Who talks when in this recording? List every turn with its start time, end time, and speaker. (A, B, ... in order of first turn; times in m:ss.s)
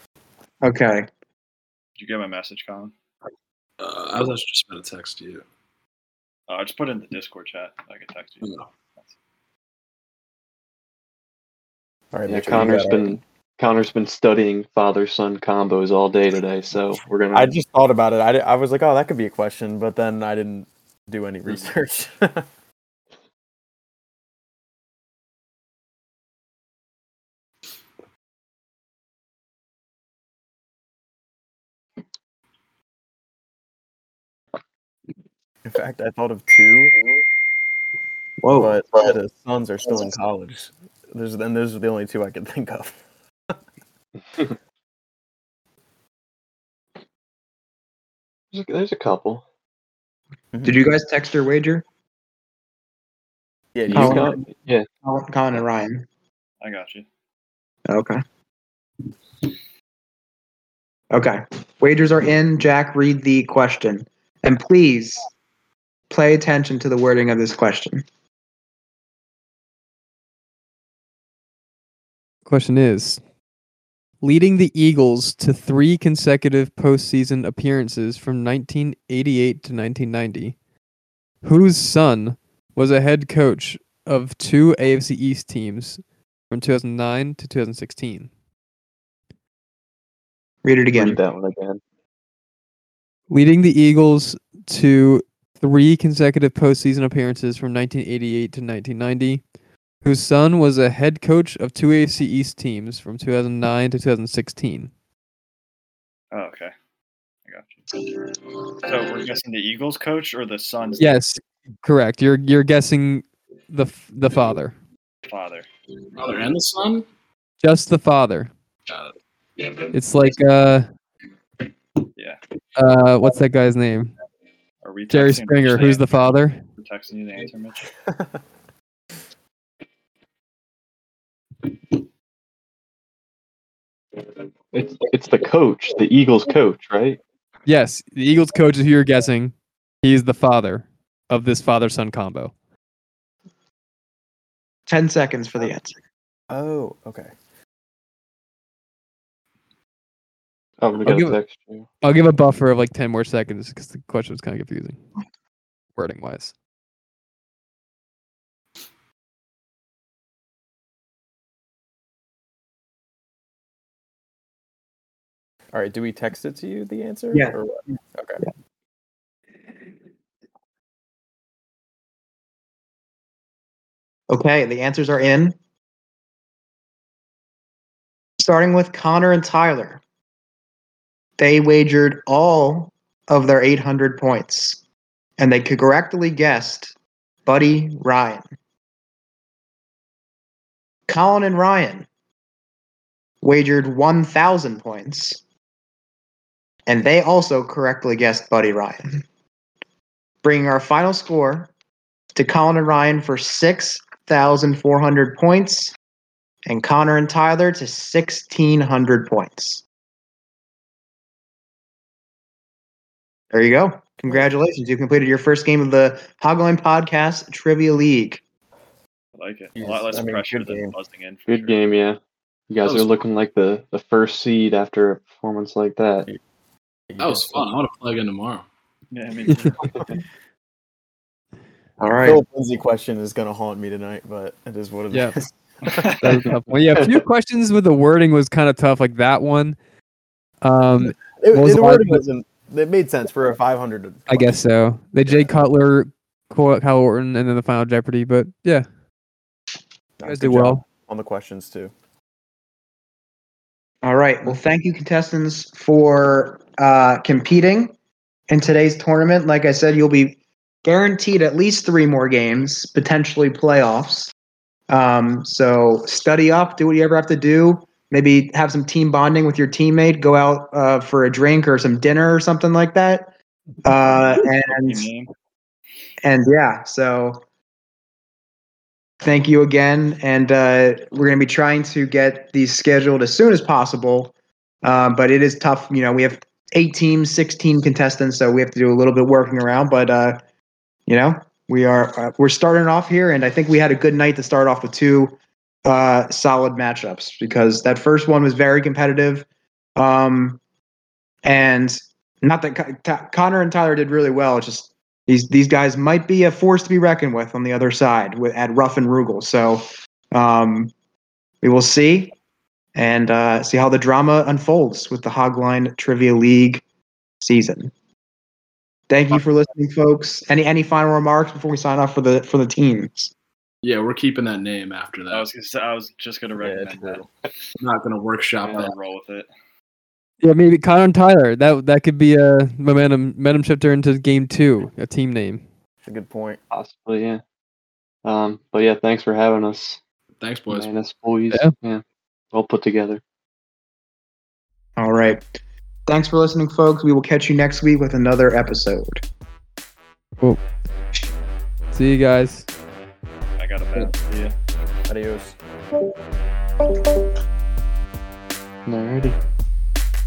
0:00.6-0:01.1 A
0:02.0-0:02.9 B
0:03.8-0:05.4 C
0:06.5-0:09.1 B
0:08.4-0:08.7 C
0:12.1-0:13.1 D
0:12.3-0:17.5 E
0:17.3-0:22.4 D
0:35.6-0:36.9 D
0:38.4-0:39.1 A
0:38.5-0:43.0 D
0:48.5-0:49.4 E
0:50.5-0:50.8 D
0:50.6-0:51.8 A
0:53.7-0:54.4 D
0:53.9-0:54.9 E
0:53.9-0:54.4 A
0:55.0-0:56.0 A
0:56.6-0:57.0 B
0:57.9-0:58.2 A
1:01.1-1:05.3 A
1:06.1-1:08.0 A
1:12.4-1:13.2 F
1:14.2-1:20.6 F
1:21.4-1:28.3 F
1:30.6-1:31.2 A
1:30.9-1:31.8 E
1:33.3-1:39.4 F
1:40.0-1:44.9 F
1:46.3-1:46.7 B
1:47.4-1:48.1 B
1:48.7-1:51.2 B
1:51.0-1:54.8 F
1:55.2-1:55.7 B
1:56.2-1:57.0 C
1:57.6-1:58.5 F
1:58.9-1:59.1 C
1:59.9-2:00.9 F
2:02.8-2:04.1 F
2:04.8-2:07.9 B
2:05.1-2:06.6 F
2:14.7-2:17.2 E
2:17.7-2:22.5 F
2:24.9-2:25.9 A
2:26.5-2:27.3 D
2:30.8-2:31.8 E
2:31.0-2:31.4 F
2:32.0-2:35.0 F
2:36.0-2:36.5 F
2:45.7-2:48.4 D
2:54.3-2:55.5 A
2:58.4-3:00.0 A
3:01.4-3:04.8 A
3:05.4-3:06.9 A
3:07.4-3:08.5 A
3:11.1-3:12.1 A
3:13.4-3:15.4 A
3:16.9-3:19.2 A
3:20.4-3:21.7 A
3:22.3-3:25.9 A
3:26.7-3:29.8 A
3:33.5-3:38.4 A
3:39.4-3:41.8 B
3:39.8-3:40.9 D
3:41.5-3:42.2 E
3:42.7-3:46.3 E
3:42.8-3:43.2 C
3:47.1-3:47.6 D
3:47.2-3:48.6 C
3:49.1-3:49.9 B
3:52.0-3:52.4 A
3:52.2-3:56.0 D
3:55.1-3:55.4 F
3:55.9-3:56.4 B
3:56.2-3:59.8 F
3:56.9-3:57.2 E
4:00.6-4:02.2 F
4:01.0-4:04.6 D
4:04.3-4:08.8 F
4:10.2-4:11.9 D
4:10.2-4:10.8 F
4:14.0-4:17.9 A
4:18.5-4:24.3 A
4:24.9-4:33.3 A
4:33.8-4:35.1 A
4:34.0-4:35.3 B
4:36.2-4:37.4 A
4:39.2-4:50.4 A
4:51.1-4:55.3 A
4:55.8-5:00.6 A
5:01.4-5:10.9 A
5:11.6-5:12.4 A
5:12.9-5:16.8 A
5:17.4-5:17.9 A
5:19.1-5:23.3 A
5:23.8-5:25.5 C
5:25.3-5:27.2 B
5:26.6-5:27.2 D
5:27.8-5:28.9 C
5:28.7-5:29.5 B
5:30.4-5:35.6 F
5:36.0-5:36.6 D
5:36.7-5:37.4 E
5:38.2-5:40.0 E
5:40.4-5:40.9 C
5:40.7-5:43.2 E
5:45.0-5:45.4 A
5:46.1-5:49.2 A
5:51.9-5:52.7 F
5:53.6-5:54.5 B
5:55.1-5:55.6 D
5:58.8-5:59.4 E